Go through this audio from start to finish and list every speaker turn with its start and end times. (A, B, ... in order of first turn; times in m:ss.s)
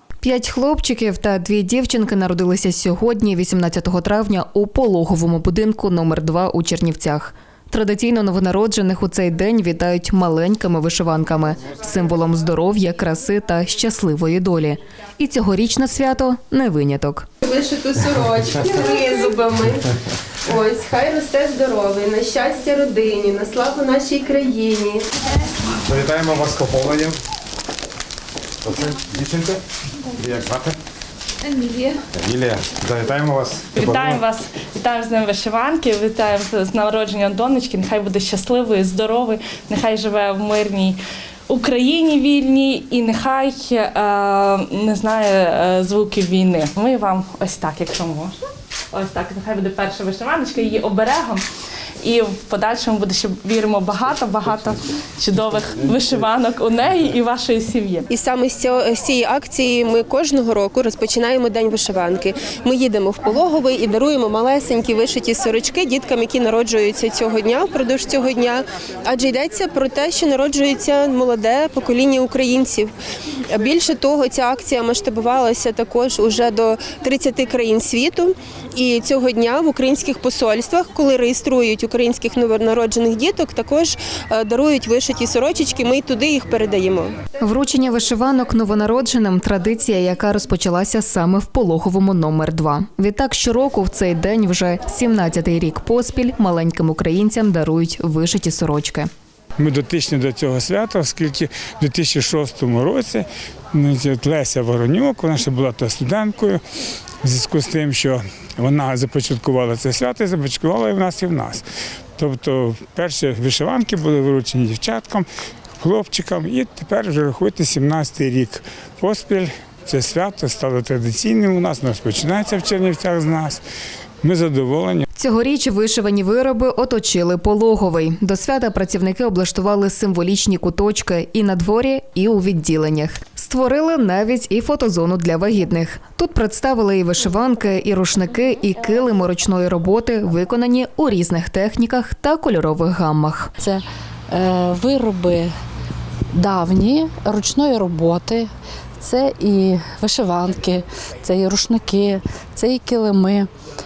0:00.2-0:17.3 A
0:17.4-0:19.8 B
0:20.4-0:25.1 B
0:25.8-0:27.2 C
0:28.6-0:29.6 C
0:30.2-0:30.8 C
0:32.1-0:34.2 C
0:33.7-0:41.0 D
0:41.5-0:48.4 D
0:48.9-0:51.4 D
0:52.0-0:58.1 D
0:58.1-1:12.9 B
1:13.4-1:27.2 B
1:27.4-1:39.1 A
1:39.6-1:46.6 E
1:47.2-1:51.6 E
1:52.2-1:55.2 E
1:55.8-2:03.6 E
2:04.2-2:05.0 E
2:05.1-2:23.5 A
2:23.6-2:25.5 F
2:26.3-2:33.5 F